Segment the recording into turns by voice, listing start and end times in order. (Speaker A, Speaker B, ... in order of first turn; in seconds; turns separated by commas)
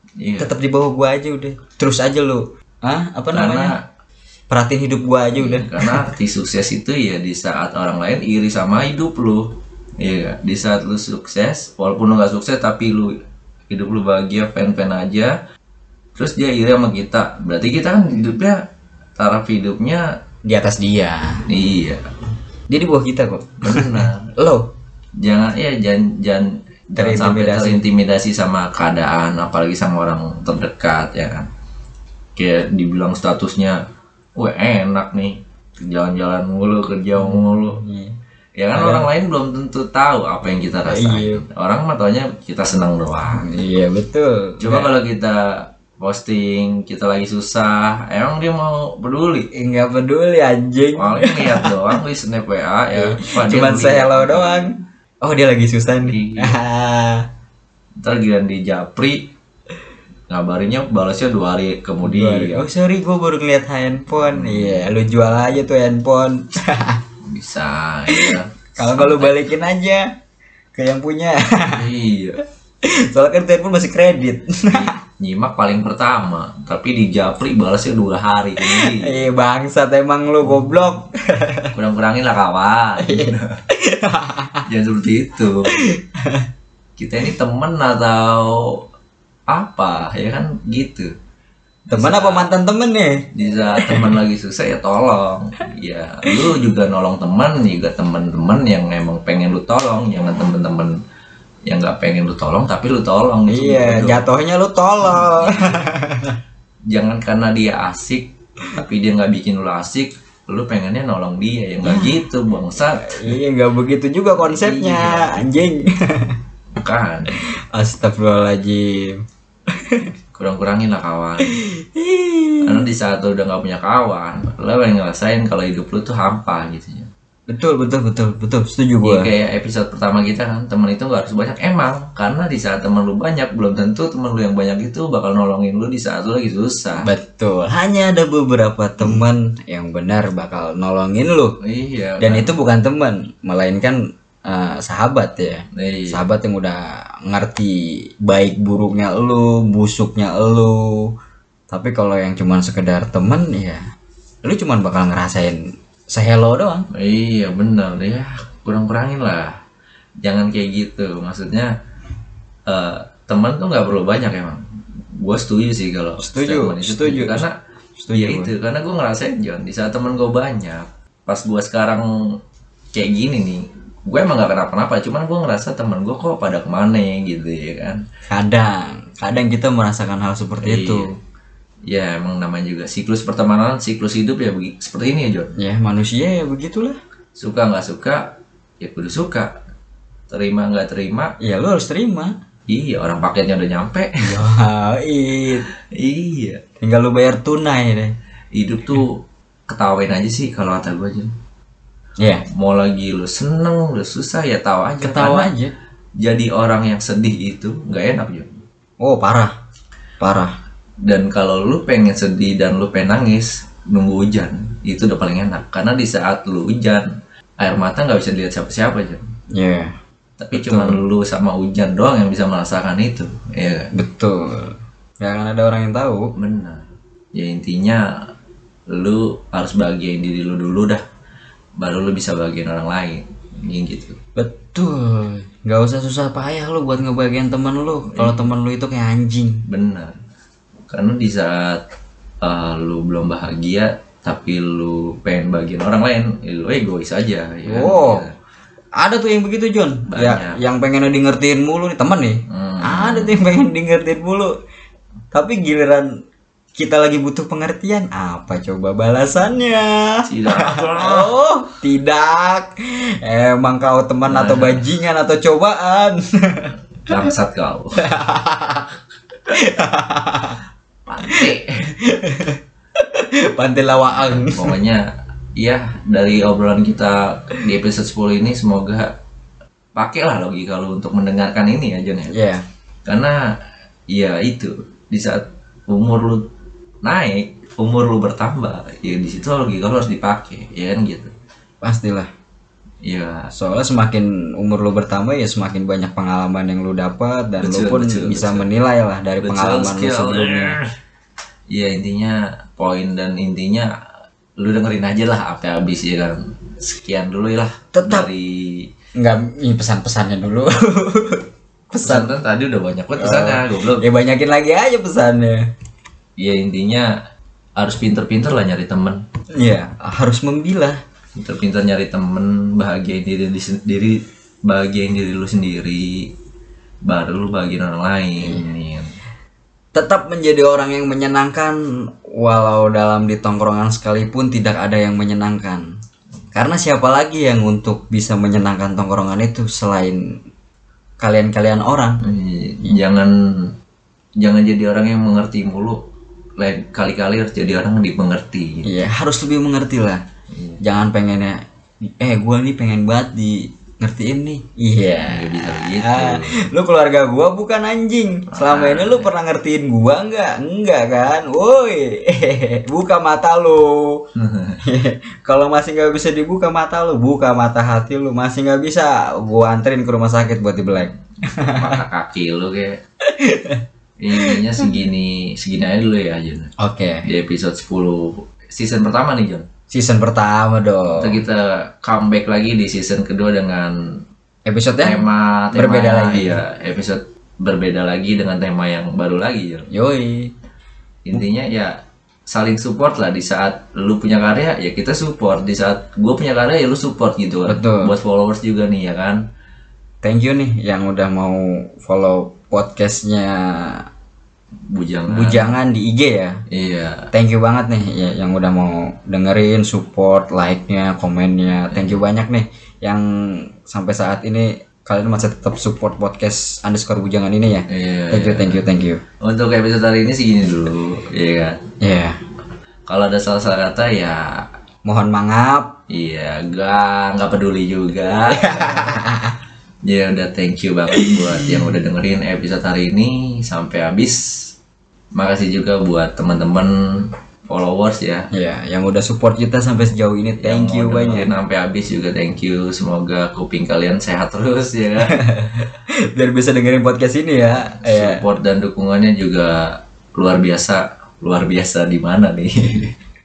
Speaker A: 0.2-0.5, Speaker B: 0.4-3.7, Speaker A: 3.3-3.8, Speaker B: 4.5-6.1, Speaker A: 5.4-13.2, Speaker A: 13.7-15.3, Speaker A: 16.1-18.6, Speaker A: 19.2-20.1, Speaker B: 20.5-21.5, Speaker A: 21.5-22.1, Speaker B: 22.7-24.7, Speaker A: 23.6-24.3, Speaker A: 25.2-31.5, Speaker B: 27.0-27.8, Speaker A: 32.4-33.8, Speaker A: 34.4-37.8, Speaker B: 37.2-38.2, Speaker A: 38.6-43.5, Speaker B: 38.7-39.1, Speaker B: 40.9-41.5, Speaker B: 43.3-44.9, Speaker A: 44.6-49.5, Speaker B: 49.5-51.9, Speaker A: 51.0-54.7, Speaker B: 52.9-57.3, Speaker A: 56.0-56.6, Speaker A: 58.0-59.3, Speaker A: 60.3-62.7, Speaker B: 62.0-67.0, Speaker A: 64.1-64.9, Speaker A: 67.2-69.4, Speaker B: 68.1-70.1, Speaker B: 70.8-71.9, Speaker A: 71.7-72.4, Speaker B: 72.8-75.0, Speaker A: 74.7-79.2, Speaker B: 78.6-81.7, Speaker A: 81.7-83.6, Speaker B: 83.0-84.7, Speaker A: 84.7-85.7, Speaker B: 85.7-86.5, Speaker A: 87.0-88.8, Speaker A: 89.5-91.1, Speaker B: 91.9-94.2, Speaker A: 91.9-92.5, Speaker A: 93.3-101.0, Speaker A: 101.7-104.3, Speaker B: 103.5-106.4, Speaker A: 105.0-105.9, Speaker A: 106.9-113.4, Speaker B: 111.8-112.2, Speaker B: 112.9-116.4, Speaker A: 114.4-115.4, Speaker A: 116.8-117.4, Speaker B: 117.3-120.1, Speaker A: 120.3-121.6, Speaker B: 121.4-122.8, Speaker A: 122.6-127.1, Speaker B: 127.5-129.3, Speaker A: 129.0-137.1, Speaker B: 137.0-141.6, Speaker A: 141.6-142.5, Speaker B: 142.2-151.1, Speaker A: 145.7-146.2, Speaker B: 151.7-153.8, Speaker B: 154.4-156.9, Speaker A: 156.9-159.6, Speaker A: 160.2-161.7, Speaker A: 162.7-164.6, Speaker A: 165.2-167.6, Speaker B: 166.2-167.4, Speaker B: 168.0-168.5, Speaker A: 168.1-172.4, Speaker A: 172.9-178.0, Speaker B: 178.3-181.1, Speaker A: 180.6-181.1, Speaker A: 181.9-185.6, Speaker B: 185.6-187.0, Speaker A: 187.4-189.6, Speaker A: 190.3-191.3, Speaker B: 191.4-192.3, Speaker A: 192.7-194.4, Speaker B: 194.2-195.7, Speaker A: 195.8-196.6, Speaker B: 196.8-198.1, Speaker A: 198.5-201.3, Speaker B: 202.2-202.4, Speaker A: 202.5-205.5, Speaker B: 205.0-205.7, Speaker A: 206.2-208.6, Speaker B: 209.0-209.6, Speaker B: 210.2-210.5, Speaker A: 211.0-217.1, Speaker A: 217.6-219.2, Speaker B: 219.5-219.9, Speaker A: 220.4-223.9, Speaker B: 220.5-221.0, Speaker B: 223.9-226.3, Speaker A: 226.4-228.1, Speaker A: 228.9-231.0, Speaker A: 231.8-234.2, Speaker B: 234.4-239.6, Speaker A: 238.1-238.5, Speaker A: 239.7-240.2, Speaker A: 240.9-241.8, Speaker A: 242.4-248.4, Speaker B: 247.7-248.3, Speaker B: 249.0-254.5, Speaker A: 250.1-250.6, Speaker A: 252.5-253.4, Speaker B: 255.3-256.1, Speaker B: 256.8-267.2, Speaker A: 260.3-261.3, Speaker A: 264.2-264.9, Speaker A: 267.0-268.0, Speaker B: 268.0-270.6, Speaker A: 271.1-271.9, Speaker B: 271.2-274.8, Speaker A: 274.4-275.0, Speaker A: 275.6-279.1, Speaker A: 280.0-282.3, Speaker B: 282.3-282.6, Speaker A: 283.1-283.4, Speaker A: 284.1-286.5, Speaker A: 287.0-291.3, Speaker B: 291.8-292.3, Speaker A: 293.1-293.5, Speaker B: 293.5-300.8, Speaker A: 297.6-298.7, Speaker A: 299.4-300.9, Speaker A: 301.7-303.9, Speaker A: 304.6-308.9, Speaker B: 307.9-308.3, Speaker B: 309.2-312.3, Speaker A: 312.0-314.1, Speaker B: 313.2-315.7, Speaker A: 316.4-317.1, Speaker A: 317.8-319.2, Speaker B: 319.6-321.0, Speaker A: 321.4-326.3, Speaker A: 327.1-329.1, Speaker B: 329.9-335.9, Speaker B: 336.5-340.4, Speaker B: 341.2-342.2, Speaker A: 342.2-343.7, Speaker A: 344.4-346.0, Speaker A: 346.6-349.0, Speaker B: 348.8-350.2, Speaker A: 350.5-350.8, Speaker B: 350.8-364.3, Speaker A: 355.2-356.6, Speaker A: 358.5-359.3, Speaker A: 364.4-364.8, Speaker B: 364.8-372.0, Speaker A: 370.9-373.0, Speaker B: 373.2-373.8, Speaker A: 374.2-376.7, Speaker B: 374.4-375.0, Speaker B: 376.8-377.3, Speaker A: 377.2-379.7, Speaker B: 379.9-381.4, Speaker A: 381.2-384.0, Speaker B: 384.7-386.6, Speaker A: 385.0-389.9, Speaker B: 389.9-390.5, Speaker A: 391.3-391.9, Speaker A: 392.5-399.4, Speaker B: 397.7-398.1, Speaker B: 400.2-404.1, Speaker A: 404.9-405.7, Speaker B: 405.3-406.6, Speaker A: 406.7-407.3, Speaker B: 407.3-419.2, Speaker A: 411.9-412.2, Speaker A: 417.9-418.9, Speaker A: 419.4-421.8, Speaker B: 422.0-422.4, Speaker A: 423.1-424.6, Speaker B: 425.1-425.9, Speaker A: 426.1-429.1, Speaker B: 428.2-429.6, Speaker A: 430.1-434.4, Speaker B: 431.1-431.9, Speaker A: 435.4-438.5, Speaker B: 438.5-441.5, Speaker A: 440.6-445.4, Speaker B: 445.3-448.4, Speaker A: 447.8-453.1